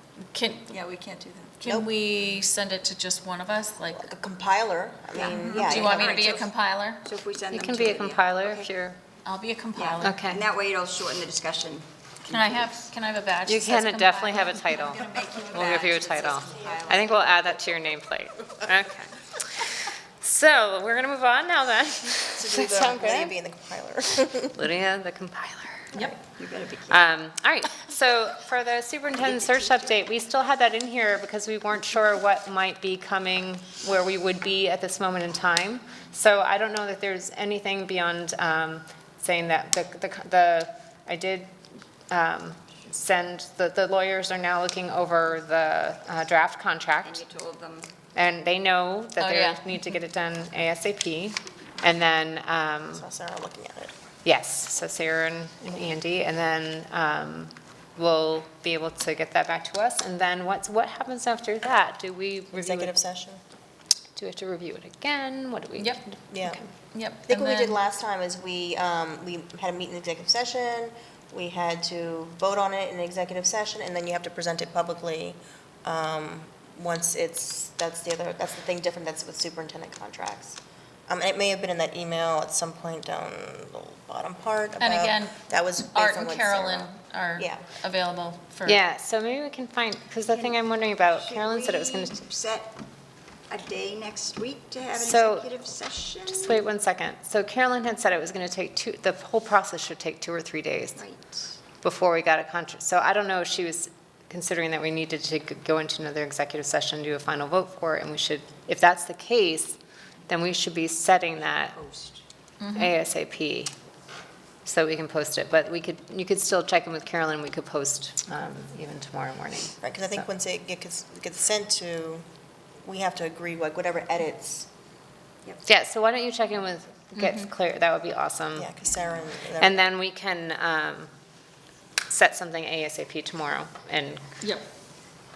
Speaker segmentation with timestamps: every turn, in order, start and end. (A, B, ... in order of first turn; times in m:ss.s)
0:00.2-0:00.8 A
0:00.7-0:01.6 B
0:01.6-0:04.1 A
0:01.6-0:01.9 C
0:03.9-0:06.5 C
0:05.1-0:06.5 B
0:05.4-0:07.0 A
0:07.0-0:08.7 B
0:07.5-0:09.0 D
0:09.2-0:10.2 A
0:09.8-0:12.9 B
0:10.0-0:10.4 D
0:12.3-0:15.3 A
0:13.4-0:23.4 D
0:14.8-0:17.6 B
0:22.4-0:24.6 C
0:24.6-0:26.0 D
0:26.3-0:27.1 B
0:26.9-0:41.5 D
0:29.2-0:30.0 B
0:42.1-0:47.2 D
0:47.0-0:47.9 B
0:48.2-0:53.1 D
0:49.2-0:49.6 A
0:52.9-0:53.9 C
0:54.2-1:03.0 D
1:02.5-1:03.4 C
1:04.2-1:06.7 D
1:05.8-1:06.0 A
1:06.3-1:06.6 C
1:06.9-1:07.8 A
1:07.2-1:27.6 C
1:24.8-1:28.8 A
1:28.6-1:32.2 D
1:30.3-1:32.8 B
1:33.5-1:36.6 B
1:35.0-1:35.6 D
1:36.3-1:41.0 D
1:41.0-1:41.6 B
1:41.8-1:51.8 D
1:51.4-1:52.2 B
1:52.6-1:53.0 A
1:52.7-1:53.7 D
1:54.6-2:00.2 D
1:59.8-2:02.2 C
2:02.8-2:04.7 C
2:05.7-2:08.7 D
2:07.2-2:07.5 A
2:08.6-2:09.9 C
2:09.6-2:11.1 D
2:12.1-2:14.2 D